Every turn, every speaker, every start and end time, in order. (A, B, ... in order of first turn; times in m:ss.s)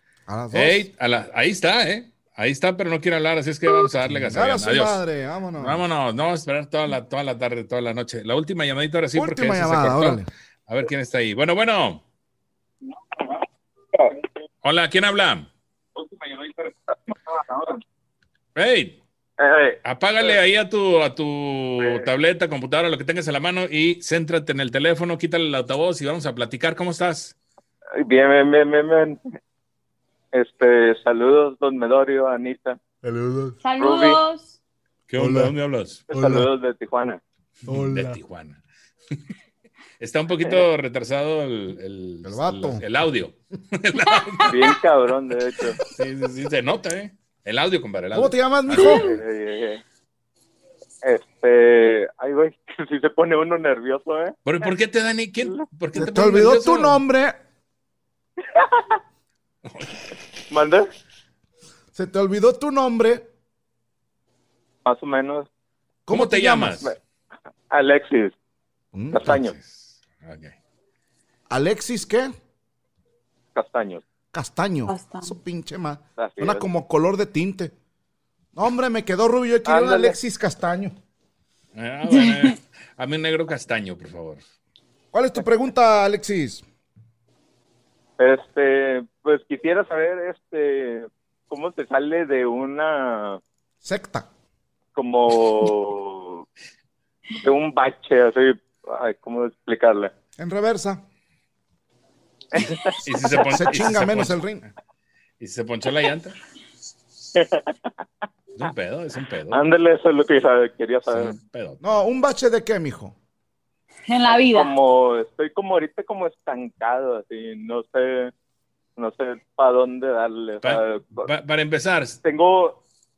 0:00.3-0:00.8 A
0:00.5-0:05.0 B
0:04.0-0:05.8 A
0:05.6-0:12.0 B
0:09.1-0:10.3 A
0:14.6-0:15.5 B
0:16.0-0:17.7 C
0:18.5-0:19.0 B
0:19.4-0:20.3 C
0:19.8-0:27.3 B
0:21.8-0:22.0 C
0:28.0-0:29.2 C
0:30.3-0:32.8 C
0:33.0-0:33.6 A
0:33.6-0:34.5 D
0:33.8-0:34.2 C
0:35.1-0:36.0 B
0:35.2-0:35.5 A
0:36.1-0:37.2 C
0:36.1-0:36.5 A
0:37.7-0:38.2 A
0:37.7-0:38.6 B
0:40.0-0:44.8 B
0:42.2-0:42.8 A
0:44.5-0:45.8 C
0:45.9-0:49.2 B
0:48.1-0:49.1 A
0:48.8-0:49.0 D
0:49.0-0:49.8 C
0:51.0-0:54.6 C
0:54.4-0:57.0 B
0:55.9-0:57.4 A
0:58.6-0:58.8 C
1:00.5-1:00.9 C
1:01.9-1:03.2 A
1:04.8-1:05.5 C
1:06.1-1:06.9 A
1:06.1-1:06.9 B
1:07.7-1:08.3 C
1:08.9-1:09.4 A
1:09.1-1:09.5 C
1:09.2-1:10.6 B
1:11.5-1:12.3 A
1:13.5-1:14.0 C
1:14.3-1:17.7 A
1:14.9-1:15.3 D
1:16.2-1:16.7 C
1:18.5-1:20.9 A
1:19.6-1:20.2 C
1:21.7-1:24.4 B
1:22.2-1:22.4 D
1:25.1-1:26.6 A
1:28.2-1:33.4 C
1:33.8-1:34.3 A
1:34.9-1:36.4 C
1:37.4-1:40.1 C
1:40.4-1:41.0 A
1:42.5-1:43.8 C
1:43.0-1:44.4 B
1:43.3-1:44.6 A
1:45.4-1:46.4 B
1:47.3-1:47.9 C
1:48.6-1:49.6 B
1:49.5-1:51.4 C
1:51.1-1:51.8 B
1:51.8-1:53.1 A
1:54.1-1:54.7 D
1:54.2-1:58.3 C
1:59.0-2:01.3 C
2:00.6-2:02.2 B
2:02.2-2:02.8 C